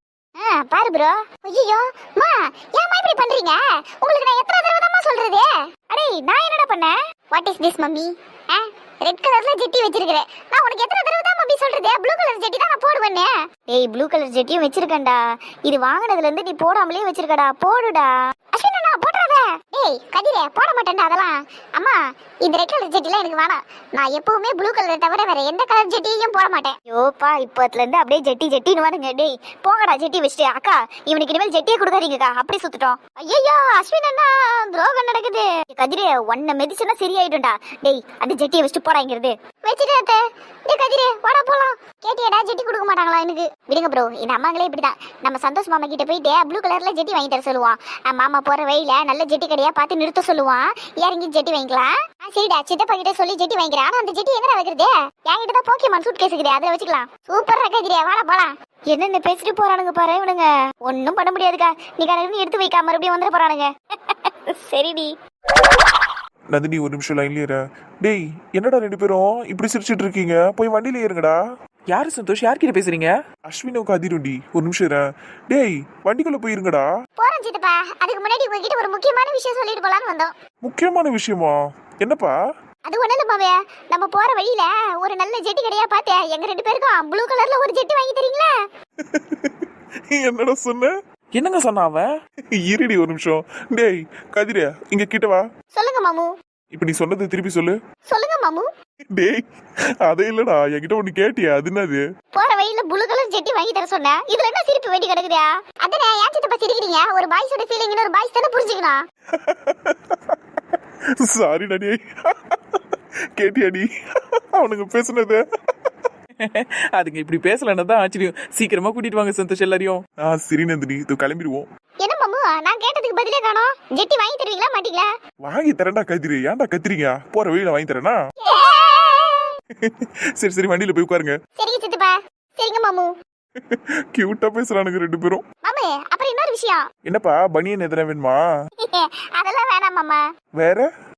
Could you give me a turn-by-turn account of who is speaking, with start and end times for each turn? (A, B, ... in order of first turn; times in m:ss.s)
0:00.4-1:05.1 A
1:06.5-1:11.4 B
1:11.9-1:13.2 C
1:13.5-1:16.9 B
1:17.2-1:20.3 A
1:20.6-1:22.4 B
1:22.9-1:28.5 A
1:29.0-1:30.9 B
1:31.4-1:32.1 C
1:32.5-1:35.5 B
1:35.7-1:36.3 A
1:36.7-1:37.8 B
1:38.1-1:38.7 A
1:39.1-1:39.5 B
1:40.0-1:42.0 B
1:42.3-1:49.0 A
1:49.3-1:56.1 B
1:56.4-2:00.0 C
2:00.2-2:01.7 B
2:02.0-2:05.1 A
2:05.4-2:08.2 B
2:08.4-2:09.6 A
2:09.7-2:11.4 B
2:11.6-2:13.1 A
2:13.6-2:15.4 B
2:15.6-2:16.8 A
2:17.0-2:18.4 B
2:18.8-2:20.2 A
2:20.6-2:20.9 B